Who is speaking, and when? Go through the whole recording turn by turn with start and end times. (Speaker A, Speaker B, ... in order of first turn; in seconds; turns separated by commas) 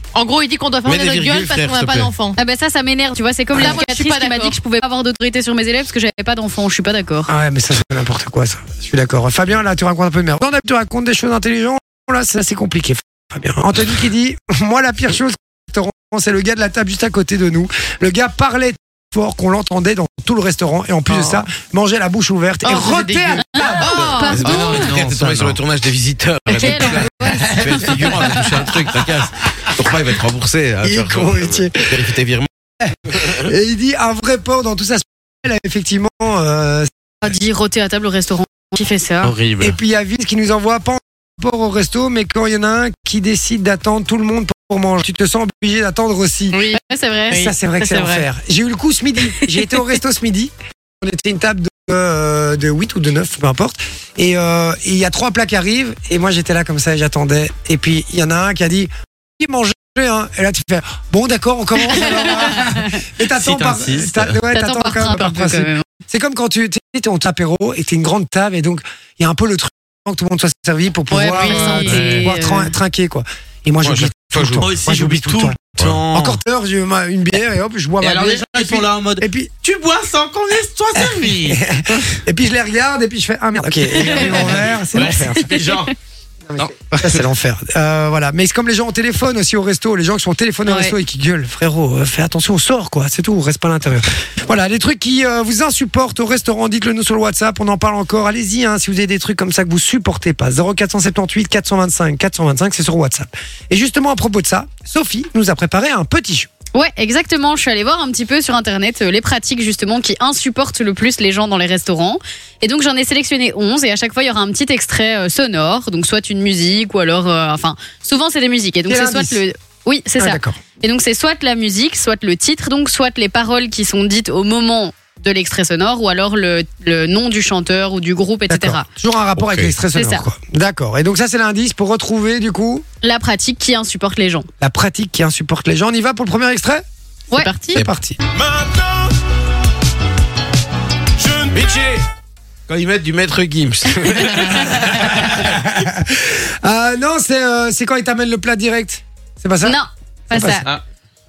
Speaker A: 0.1-2.4, Speaker B: 0.8-2.1, Speaker C: 2.4-7.3, Speaker A: 3.5-4.5, Speaker D: 7.3-24.0, Speaker A: 22.6-24.6, Speaker C: 23.6-24.9, Speaker B: 24.1-32.5, Speaker E: 24.4-25.6, Speaker C: 26.5-28.4, Speaker D: 27.7-28.1, Speaker D: 30.8-32.1, Speaker D: 32.8-36.9, Speaker B: 33.1-33.4, Speaker C: 37.2-39.3, Speaker E: 39.2-39.8, Speaker D: 39.6-46.6, Speaker A: 46.5-46.8, Speaker C: 46.7-48.1, Speaker A: 47.3-48.1, Speaker D: 47.3-79.5, Speaker C: 61.9-63.0, Speaker E: 63.3-64.3, Speaker C: 64.5-65.8, Speaker C: 71.1-72.7, Speaker A: 71.4-71.8, Speaker E: 71.8-72.3, Speaker B: 73.8-74.7, Speaker E: 74.6-76.4, Speaker E: 78.0-82.2, Speaker D: 80.9-85.5, Speaker E: 84.1-85.9, Speaker C: 85.0-85.9, Speaker D: 86.5-106.5, Speaker E: 86.6-87.2, Speaker C: 90.7-90.9, Speaker C: 106.7-128.9, Speaker D: 118.9-119.4, Speaker D: 120.2-120.6, Speaker D: 128.5-132.8, Speaker B: 129.4-129.7, Speaker C: 129.9-130.2, Speaker C: 133.0-134.5, Speaker D: 134.6-136.8, Speaker A: 137.3-137.8, Speaker D: 137.7-138.2, Speaker B: 138.5-138.7, Speaker B: 141.2-142.1, Speaker B: 142.7-145.5, Speaker D: 145.2-149.8, Speaker C: 149.6-150.7, Speaker D: 150.3-150.6